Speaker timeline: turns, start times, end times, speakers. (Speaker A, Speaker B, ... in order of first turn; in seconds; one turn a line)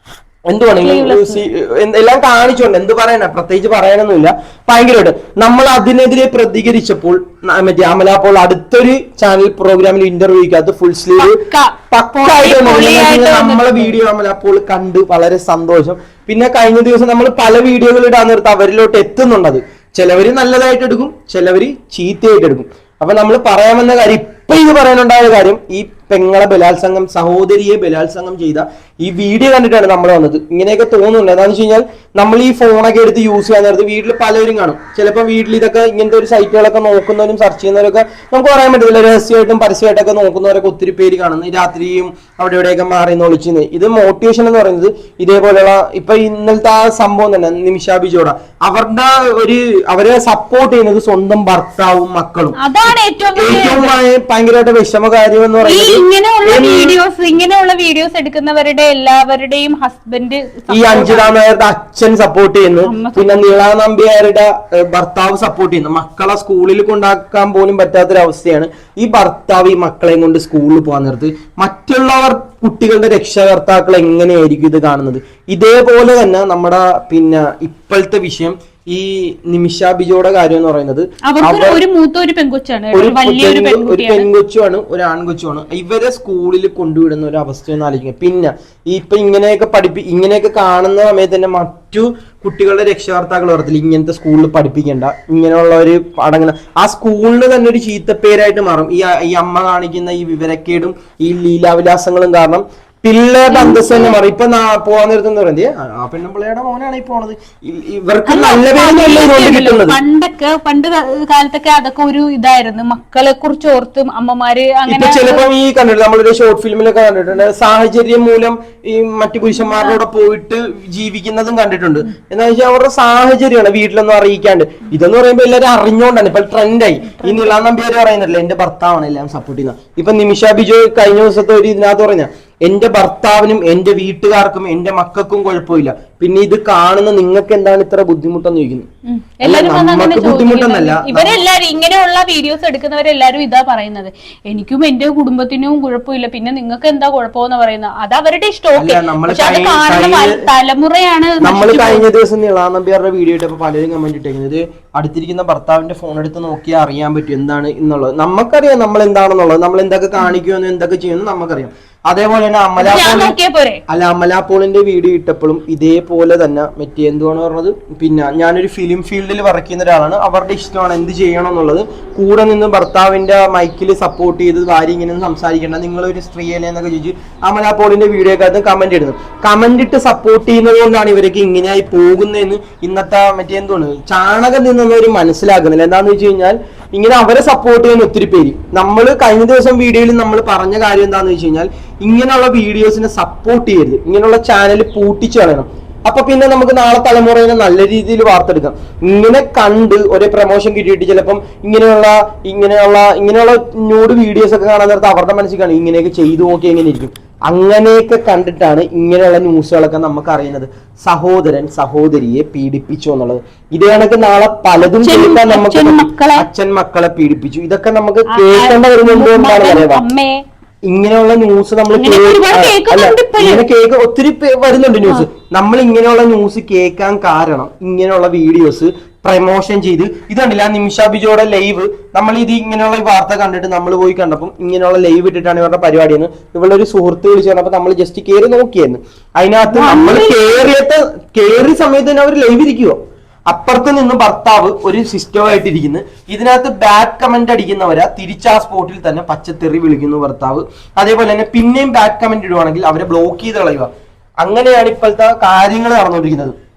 Speaker A: 0.5-11.4
Speaker B: 0.8-1.4
Speaker B: 11.2-14.0
Speaker A: 12.0-52.6
Speaker B: 52.6-54.0
Speaker A: 53.4-57.0
Speaker B: 55.6-61.3
Speaker A: 60.7-81.8
Speaker B: 62.8-63.6
Speaker B: 81.3-84.3
Speaker A: 82.9-110.0
Speaker B: 103.5-104.2
Speaker B: 108.3-115.5
Speaker A: 114.9-138.9
Speaker B: 119.6-120.0
Speaker B: 127.1-127.7
Speaker B: 139.1-152.1
Speaker A: 139.4-141.4
Speaker A: 148.8-150.5
Speaker A: 151.4-163.4
Speaker B: 162.8-163.8
Speaker A: 163.9-220.0
Speaker B: 214.8-216.5
Speaker B: 218.3-220.4
Speaker A: 220.9-243.0
Speaker B: 222.0-223.6
Speaker B: 239.7-240.6
Speaker A: 243.5-253.9
Speaker A: 254.4-256.6